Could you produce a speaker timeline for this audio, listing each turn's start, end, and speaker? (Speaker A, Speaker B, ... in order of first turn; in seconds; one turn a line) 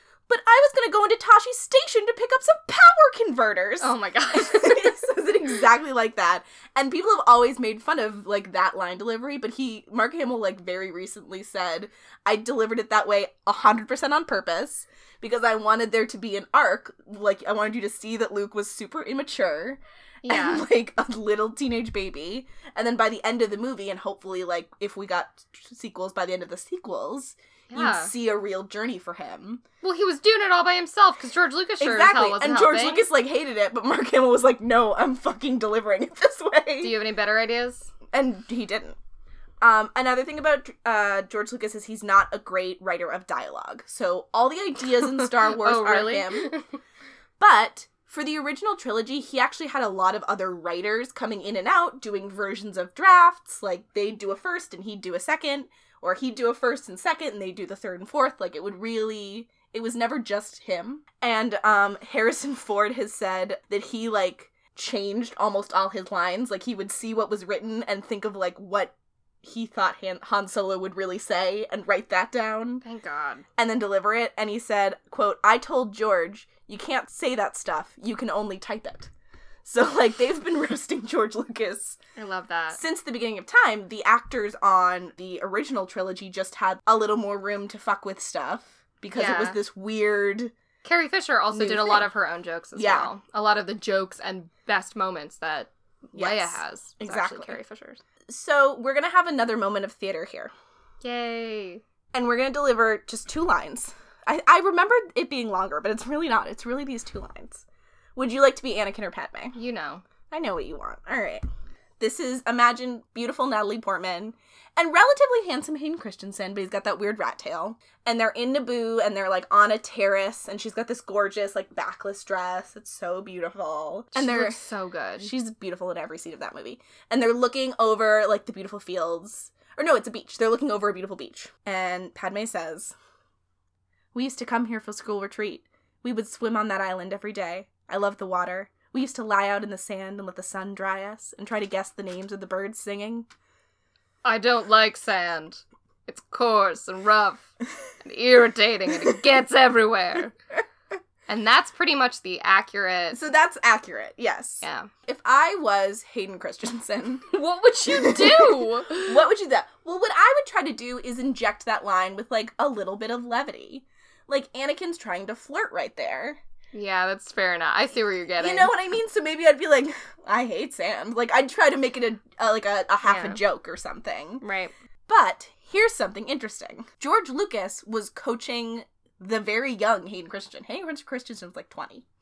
Speaker A: 0.3-29.6
Speaker B: 3.8-5.0
Speaker B: 20.2-20.6
Speaker B: 27.7-28.1
Speaker B: 29.8-33.1
Speaker A: 31.8-36.9
Speaker B: 36.8-37.9
Speaker A: 38.1-39.0
Speaker A: 39.6-46.5
Speaker B: 45.2-46.7
Speaker A: 47.4-72.8
Speaker B: 72.8-73.4
Speaker A: 73.6-79.1
Speaker A: 79.6-82.0
Speaker B: 82.2-82.8
Speaker A: 82.7-90.5
Speaker B: 89.1-89.6
Speaker B: 90.8-98.0
Speaker A: 91.5-92.1
Speaker A: 92.7-93.1
Speaker A: 96.1-97.6
Speaker A: 98.3-100.5
Speaker B: 101.0-101.8
Speaker A: 102.1-107.6
Speaker A: 108.2-109.5
Speaker B: 109.5-110.0
Speaker A: 110.3-111.4
Speaker A: 112.0-124.6
Speaker B: 124.1-125.3
Speaker A: 125.2-132.9
Speaker A: 134.1-143.3
Speaker B: 144.2-147.5
Speaker B: 148.0-150.3
Speaker B: 151.3-153.2
Speaker A: 153.1-166.4
Speaker B: 154.6-154.9
Speaker B: 157.3-159.1
Speaker B: 166.7-168.7
Speaker A: 168.4-174.4
Speaker B: 173.0-173.4
Speaker B: 174.4-174.7
Speaker A: 175.1-182.0